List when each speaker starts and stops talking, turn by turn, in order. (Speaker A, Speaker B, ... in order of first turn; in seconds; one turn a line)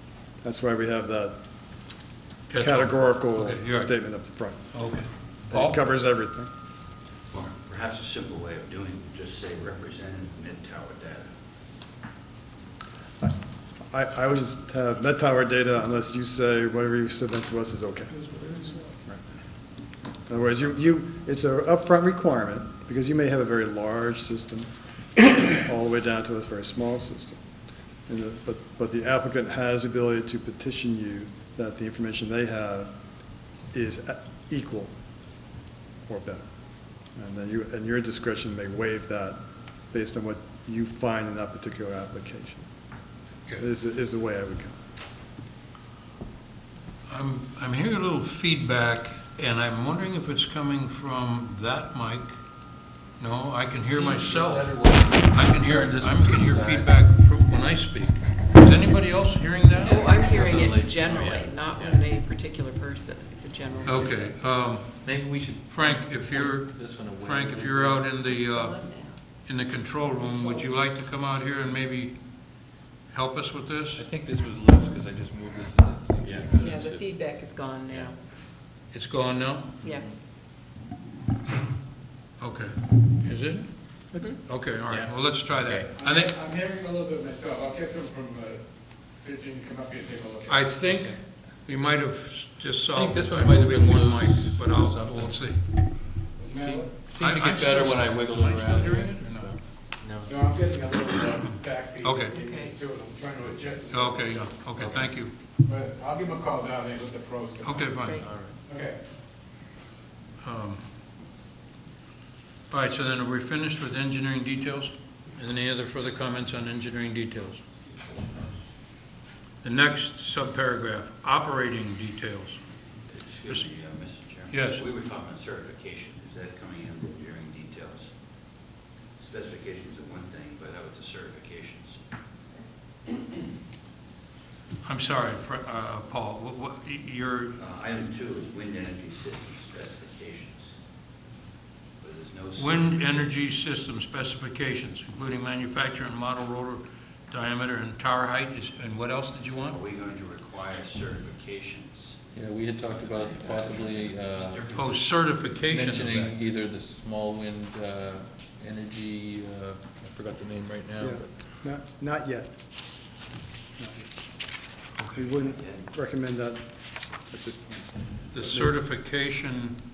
Speaker A: 0.4-1.4
Speaker B: 2.5-3.9
Speaker A: 2.5-4.7
Speaker B: 4.7-5.8
Speaker A: 5.5-6.5
Speaker C: 7.3-11.3
Speaker A: 13.9-19.2
Speaker A: 20.3-27.4
Speaker A: 28.1-32.9
Speaker A: 33.7-34.9
Speaker A: 36.1-36.5
Speaker A: 37.1-39.4
Speaker A: 39.9-42.7
Speaker A: 43.6-44.8
Speaker B: 47.1-52.3
Speaker B: 53.2-60.1
Speaker D: 53.8-56.9
Speaker E: 59.8-64.4
Speaker D: 59.8-62.0
Speaker B: 63.8-65.0
Speaker D: 65.0-68.1
Speaker B: 65.7-68.8
Speaker E: 68.2-69.2
Speaker B: 69.4-72.2
Speaker B: 73.1-74.0
Speaker D: 73.9-77.0
Speaker E: 76.6-78.2
Speaker B: 78.9-79.8
Speaker B: 82.4-86.3
Speaker F: 85.8-90.9
Speaker B: 90.5-95.9
Speaker D: 92.9-95.4
Speaker F: 96.3-97.0
Speaker D: 96.4-100.2
Speaker B: 97.2-99.5
Speaker F: 100.2-104.5
Speaker B: 101.4-102.4
Speaker E: 102.3-102.8
Speaker B: 103.9-105.3
Speaker D: 104.8-105.1
Speaker F: 105.6-108.0
Speaker B: 107.6-108.2
Speaker E: 108.0-108.4
Speaker D: 108.2-108.5
Speaker F: 108.6-109.0
Speaker B: 110.4-110.8
Speaker B: 112.7-117.6
Speaker B: 119.6-122.6
Speaker C: 123.1-128.1
Speaker B: 124.5-124.8
Speaker C: 129.2-132.0
Speaker B: 134.8-137.5
Speaker C: 137.6-140.8
Speaker C: 142.0-143.1
Speaker B: 142.6-149.9
Speaker C: 149.7-152.2
Speaker D: 152.3-154.6
Speaker C: 152.8-155.1
Speaker B: 154.7-156.3
Speaker D: 155.7-161.2
Speaker A: 161.0-162.5
Speaker A: 163.8-164.2
Speaker B: 165.0-165.3
Speaker A: 165.1-168.7
Speaker C: 165.4-165.8
Speaker B: 168.3-169.8